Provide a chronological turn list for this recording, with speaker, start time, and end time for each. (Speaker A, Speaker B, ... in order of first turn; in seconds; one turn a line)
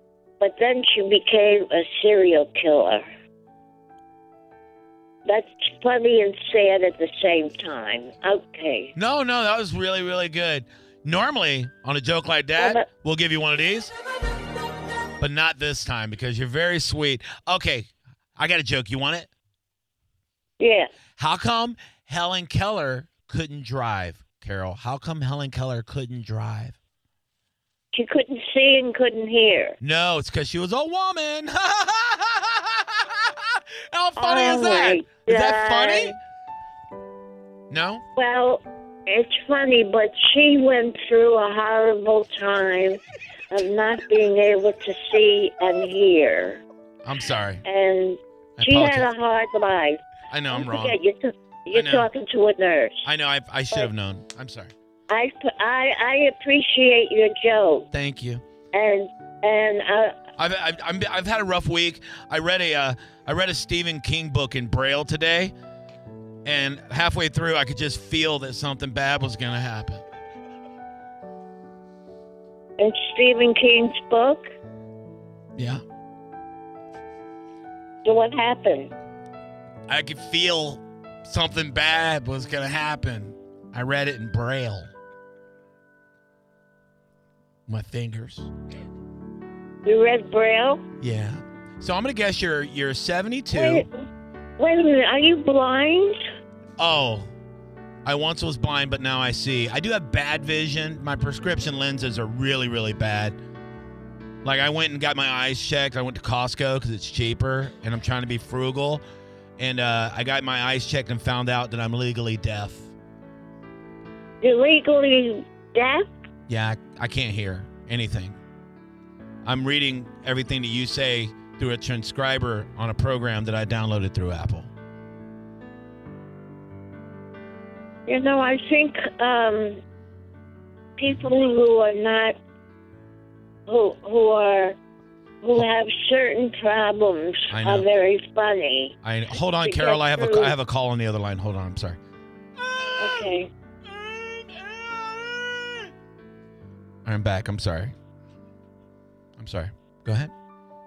Speaker A: 0.4-3.0
Speaker A: 5.2-8.9
Speaker B: 8.9-13.9
Speaker A: 12.6-12.9
Speaker B: 15.2-19.3
Speaker A: 20.6-20.9
Speaker B: 21.2-26.8
Speaker A: 27.9-29.8
Speaker B: 29.8-36.1
Speaker A: 34.2-36.1
Speaker B: 37.7-38.0
Speaker A: 38.1-43.0
Speaker A: 43.5-46.6
Speaker B: 47.0-47.6
Speaker A: 47.6-50.0
Speaker B: 48.6-49.1
Speaker B: 50.3-51.0
Speaker A: 50.5-53.1
Speaker B: 51.7-52.1
Speaker B: 53.0-54.7
Speaker A: 55.1-57.9
Speaker B: 57.9-58.4
Speaker A: 58.7-60.2
Speaker B: 60.4-65.5
Speaker B: 66.4-70.0
Speaker A: 72.8-74.5
Speaker B: 75.6-75.8
Speaker A: 78.0-78.9
Speaker B: 79.9-84.9
Speaker B: 87.7-88.5
Speaker A: 89.8-90.8
Speaker B: 91.0-93.8
Speaker A: 93.5-94.0
Speaker A: 94.6-96.2
Speaker B: 96.8-97.3
Speaker B: 98.0-103.3
Speaker B: 104.4-109.0
Speaker B: 109.6-112.9
Speaker A: 114.4-116.1
Speaker B: 116.5-118.4
Speaker B: 119.4-124.7
Speaker A: 128.1-129.8
Speaker A: 131.0-132.4
Speaker A: 133.7-134.8
Speaker A: 135.4-138.9
Speaker B: 137.5-137.9
Speaker B: 139.0-142.0
Speaker A: 139.6-140.5
Speaker B: 142.6-143.3
Speaker A: 143.0-143.5
Speaker B: 143.8-145.9
Speaker B: 147.0-147.9
Speaker B: 149.4-150.3